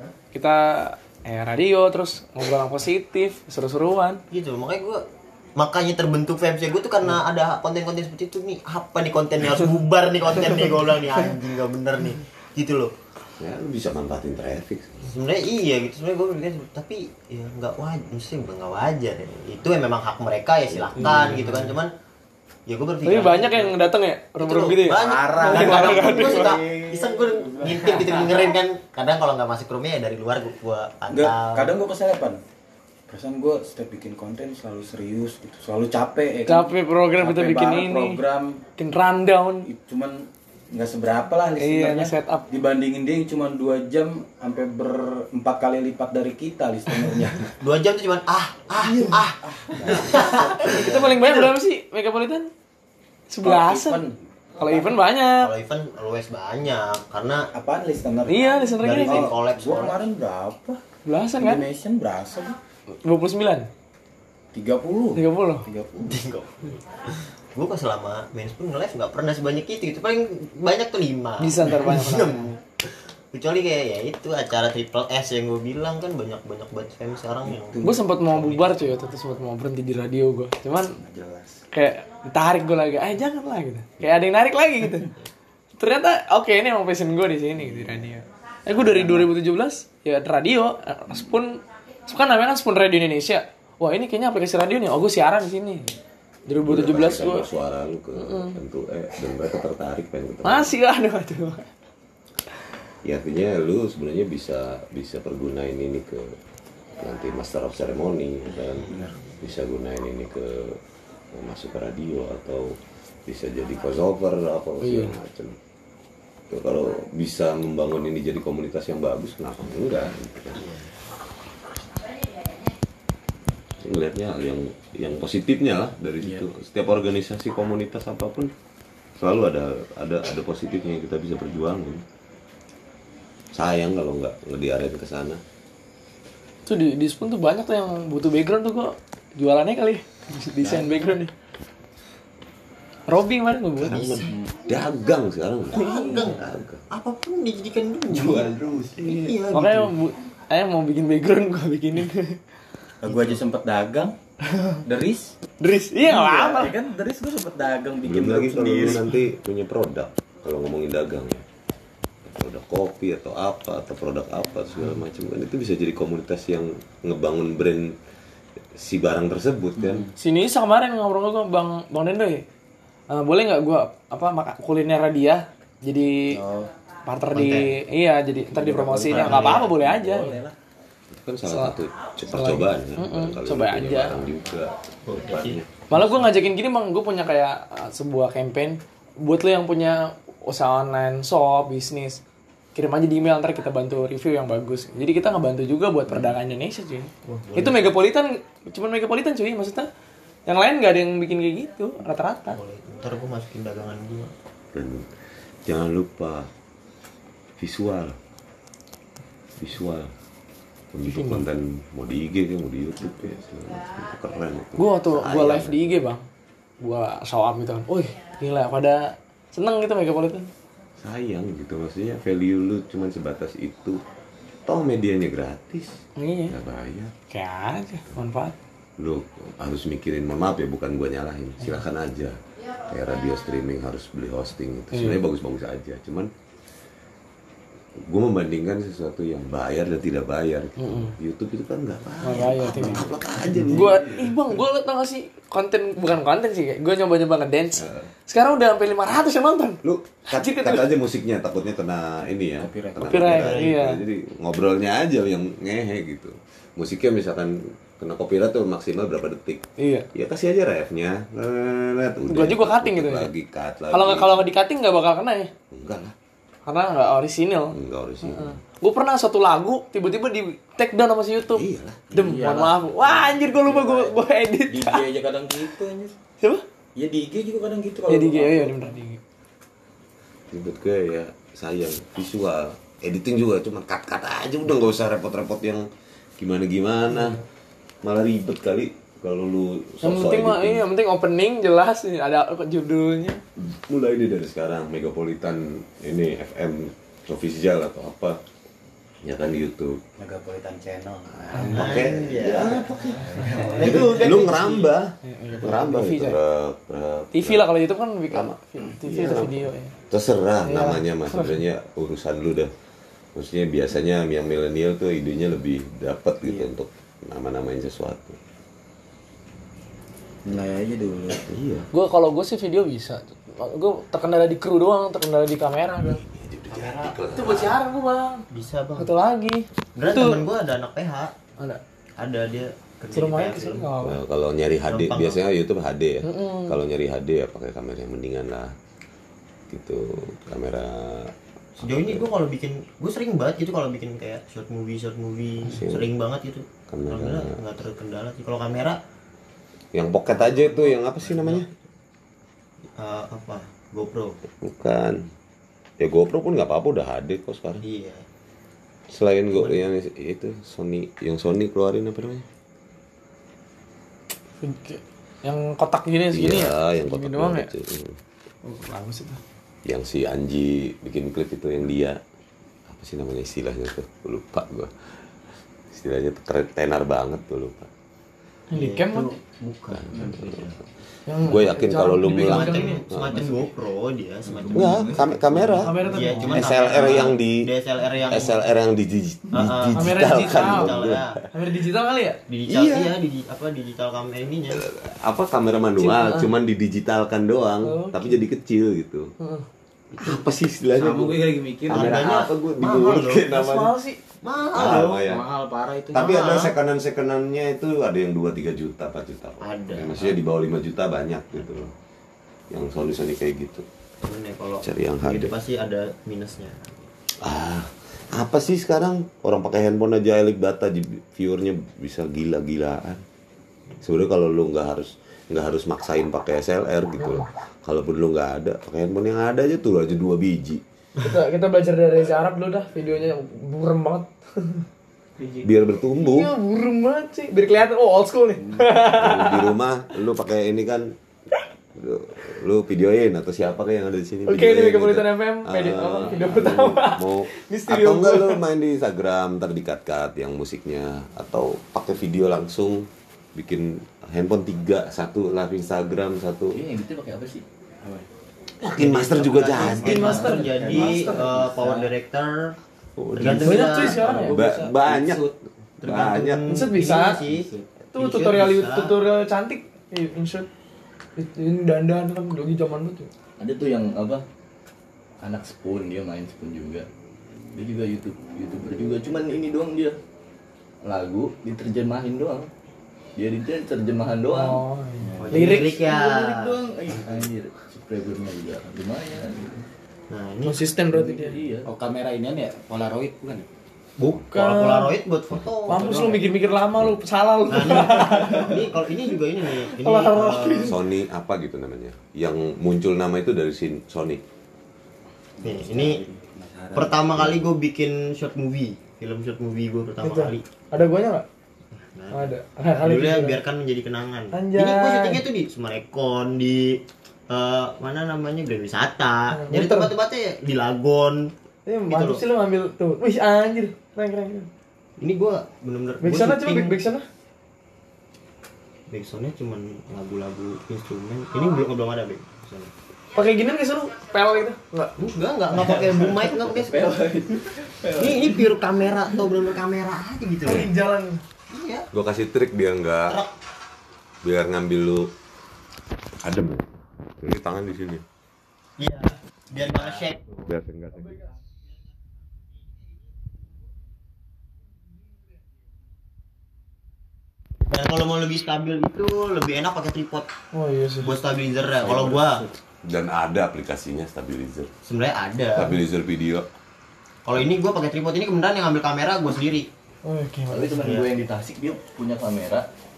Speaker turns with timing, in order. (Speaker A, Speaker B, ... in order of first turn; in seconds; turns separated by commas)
Speaker A: 0.3-4.2, Speaker B: 4.3-5.0, Speaker B: 5.6-12.9, Speaker C: 13.4-15.1, Speaker B: 15.1-21.9, Speaker C: 20.7-21.2, Speaker A: 21.1-21.5, Speaker B: 22.7-23.8, Speaker A: 23.0-26.6, Speaker B: 24.4-31.8, Speaker D: 24.9-28.6, Speaker D: 31.1-32.4, Speaker D: 33.1-38.6, Speaker A: 36.5-38.2, Speaker A: 38.8-39.7, Speaker D: 39.7-47.6, Speaker A: 41.6-42.5, Speaker B: 47.6-51.5, Speaker D: 48.8-51.0, Speaker A: 50.6-52.5, Speaker A: 53.3-54.0, Speaker D: 53.4-55.0, Speaker A: 54.6-55.5, Speaker B: 55.4-57.5, Speaker D: 57.5-60.8, Speaker A: 58.3-59.3, Speaker B: 58.8-60.1, Speaker A: 61.1-61.7, Speaker D: 61.4-62.6, Speaker A: 63.0-63.7, Speaker D: 64.5-66.3, Speaker A: 65.2-65.7, Speaker B: 66.0-66.8, Speaker B: 67.5-77.8, Speaker A: 71.4-72.4, Speaker D: 77.5-79.0, Speaker A: 77.8-81.0, Speaker D: 81.0-81.6, Speaker A: 81.7-85.1, Speaker A: 85.8-95.9, Speaker D: 87.5-88.2, Speaker D: 88.7-89.3, Speaker A: 96.5-97.5, Speaker C: 96.6-100.8, Speaker A: 98.2-98.6, Speaker A: 100.4-101.7, Speaker C: 103.0-106.3, Speaker C: 107.0-110.8, Speaker B: 108.8-109.1, Speaker C: 111.3-115.6, Speaker A: 114.8-115.2, Speaker C: 116.5-120.7, Speaker B: 120.5-120.9, Speaker C: 123.8-128.5, Speaker C: 129.2-132.0, Speaker C: 133.5-135.4, Speaker A: 136.7-141.3, Speaker D: 140.6-141.2, Speaker A: 143.1-144.1, Speaker C: 143.8-146.8, Speaker B: 143.9-144.2, Speaker D: 144.3-144.6, Speaker B: 145.7-149.9, Speaker A: 145.7-146.2, Speaker E: 148.1-149.1, Speaker A: 149.0-152.4, Speaker D: 153.0-154.1, Speaker A: 154.5-154.8, Speaker D: 154.8-155.3, Speaker A: 155.6-156.8, Speaker D: 156.0-159.1, Speaker C: 158.0-161.4, Speaker C: 162.2-168.0, Speaker C: 168.8-170.1, Speaker D: 169.8-170.1, Speaker A: 170.2-172.4, Speaker A: 173.1-176.4, Speaker D: 176.3-176.7, Speaker A: 177.1-180.3, Speaker B: 177.3-177.8, Speaker D: 178.5-180.6, Speaker B: 179.1-179.7, Speaker C: 181.1-186.2, Speaker A: 181.5-181.8, Speaker A: 182.3-184.2, Speaker B: 185.1-185.6, Speaker A: 185.9-192.2, Speaker A: 192.8-199.9, Speaker D: 196.1-196.3, Speaker B: 197.3-197.9, Speaker A: 200.5-202.6, Speaker B: 202.5-204.3, Speaker C: 204.7-205.1, Speaker C: 205.7-206.5, Speaker C: 207.6-208.2, Speaker C: 209.6-210.1, Speaker C: 210.9-216.0, Speaker A: 211.1-211.4, Speaker A: 214.8-216.3, Speaker A: 216.8-220.5, Speaker C: 221.0-224.0, Speaker C: 224.7-226.0, Speaker A: 226.2-226.6, Speaker C: 226.5-227.1, Speaker A: 227.3-228.6, Speaker C: 229.0-236.3, Speaker A: 234.9-235.2, Speaker C: 238.1-243.9, Speaker A: 240.8-241.2, Speaker A: 242.2-243.1, Speaker E: 243.5-244.4, Speaker A: 243.7-249.8, Speaker C: 247.8-248.1, Speaker C: 249.8-259.6, Speaker A: 250.3-250.9, Speaker D: 252.6-253.6, Speaker A: 253.0-254.0, Speaker B: 253.4-253.7, Speaker A: 259.8-260.1, Speaker C: 260.1-264.5, Speaker A: 262.3-263.3, Speaker A: 263.9-265.5, Speaker C: 265.7-266.1, Speaker A: 266.7-271.6, Speaker C: 267.7-268.6, Speaker C: 271.5-272.0, Speaker D: 272.1-276.1, Speaker A: 272.1-275.1, Speaker D: 277.0-279.0, Speaker A: 278.1-279.2, Speaker C: 280.5-285.9, Speaker C: 286.4-287.4, Speaker A: 287.1-287.4, Speaker C: 288.0-290.9, Speaker A: 290.0-293.4, Speaker C: 293.6-298.4, Speaker C: 299.2-300.0, Speaker D: 300.2-304.7, Speaker C: 301.3-303.2, Speaker B: 301.6-303.1, Speaker E: 303.3-303.9, Speaker B: 303.7-304.9, Speaker C: 303.8-307.7, Speaker A: 305.2-306.4, Speaker A: 307.3-309.9, Speaker C: 308.3-312.7, Speaker A: 310.6-311.6, Speaker C: 313.4-318.4, Speaker D: 320.4-321.4, Speaker C: 321.3-321.9, Speaker A: 321.9-326.2, Speaker C: 326.0-327.8, Speaker B: 326.7-327.7, Speaker A: 327.3-328.4, Speaker B: 328.5-329.1, Speaker A: 329.0-330.5, Speaker B: 330.0-331.3, Speaker B: 332.2-333.9, Speaker A: 333.1-334.2, Speaker C: 334.0-338.7, Speaker B: 334.9-335.4, Speaker A: 336.2-336.8, Speaker C: 339.7-342.3, Speaker B: 341.8-349.0, Speaker C: 345.6-346.1, Speaker C: 346.9-347.6, Speaker C: 349.9-351.7, Speaker B: 350.3-351.7, Speaker B: 352.9-354.4, Speaker C: 354.6-355.2, Speaker C: 356.0-357.8, Speaker B: 357.8-358.2, Speaker C: 359.1-362.5, Speaker A: 364.6-367.7, Speaker C: 366.3-368.2, Speaker A: 368.6-369.4, Speaker C: 369.9-372.2, Speaker C: 372.9-375.3, Speaker C: 375.9-377.9, Speaker A: 378.7-379.3, Speaker B: 378.7-380.8, Speaker C: 379.9-380.6, Speaker D: 380.1-380.6, Speaker A: 381.3-383.0, Speaker C: 381.4-383.6, Speaker B: 382.4-385.1, Speaker E: 384.6-385.8, Speaker C: 384.7-385.9, Speaker A: 385.8-386.8, Speaker B: 386.1-388.6, Speaker C: 386.5-387.6, Speaker C: 388.3-391.5, Speaker B: 389.5-391.4, Speaker A: 389.9-391.0, Speaker A: 391.5-392.4, Speaker B: 392.5-394.8, Speaker C: 392.7-393.1, Speaker C: 394.7-399.3, Speaker A: 396.0-396.5, Speaker A: 397.8-398.4, Speaker A: 399.4-399.6, Speaker C: 400.2-403.9, Speaker D: 400.9-402.3, Speaker B: 401.9-403.5, Speaker A: 402.9-404.2, Speaker B: 404.4-405.2, Speaker C: 404.7-405.5, Speaker D: 404.8-406.4, Speaker C: 406.1-411.9, Speaker B: 406.1-406.7, Speaker B: 409.6-410.4, Speaker C: 412.7-413.9, Speaker B: 414.2-417.1, Speaker C: 414.8-415.6, Speaker C: 417.4-423.2, Speaker C: 424.0-430.8, Speaker A: 427.2-427.5, Speaker A: 431.2-434.8, Speaker C: 435.6-436.5, Speaker A: 436.2-439.7, Speaker D: 438.6-439.0, Speaker C: 439.2-441.1, Speaker C: 441.9-456.8, Speaker A: 444.5-448.6, Speaker E: 456.7-457.6, Speaker C: 458.8-460.2, Speaker D: 459.0-462.1, Speaker E: 459.7-461.0, Speaker A: 459.8-461.4, Speaker B: 459.9-462.7, Speaker C: 463.2-466.9, Speaker B: 463.4-464.3, Speaker A: 463.6-464.6, Speaker D: 464.1-465.5, Speaker B: 466.0-469.1, Speaker A: 466.7-467.4, Speaker D: 467.1-467.9, Speaker A: 468.1-470.7, Speaker A: 471.4-473.3, Speaker E: 473.6-474.4, Speaker E: 475.4-477.1, Speaker E: 477.7-480.2, Speaker E: 481.1-482.7, Speaker E: 483.4-484.8, Speaker A: 484.5-485.9, Speaker D: 485.2-486.0, Speaker B: 485.5-486.9, Speaker E: 485.8-489.9, Speaker B: 490.3-490.8, Speaker A: 490.6-491.6, Speaker E: 491.1-491.9, Speaker D: 491.9-493.7, Speaker B: 494.2-496.4, Speaker A: 494.5-495.2, Speaker A: 495.9-498.8, Speaker B: 497.7-501.0, Speaker A: 499.8-501.0, Speaker C: 500.8-504.4, Speaker D: 505.6-507.5, Speaker B: 505.6-506.2, Speaker B: 506.9-510.7, Speaker A: 510.2-511.4, Speaker B: 512.1-521.5, Speaker A: 512.3-513.6, Speaker A: 514.5-515.4, Speaker A: 519.5-520.1, Speaker A: 521.9-524.7, Speaker B: 522.1-522.4, Speaker B: 525.2-527.0, Speaker A: 526.2-527.2, Speaker B: 529.1-532.9, Speaker A: 533.3-535.1, Speaker B: 535.2-537.2, Speaker E: 535.7-538.9, Speaker B: 538.2-540.9, Speaker A: 540.6-541.4, Speaker B: 541.7-542.1, Speaker C: 542.1-543.4, Speaker C: 544.4-545.3, Speaker C: 546.4-548.2, Speaker B: 549.0-550.4, Speaker C: 550.6-551.4, Speaker B: 557.9-560.5, Speaker A: 560.7-561.3, Speaker B: 561.2-562.7, Speaker D: 562.0-562.7, Speaker C: 563.0-564.9, Speaker B: 565.1-566.0, Speaker C: 565.8-566.7, Speaker B: 567.5-569.9, Speaker A: 570.3-571.1, Speaker E: 570.7-572.9, Speaker B: 571.0-571.3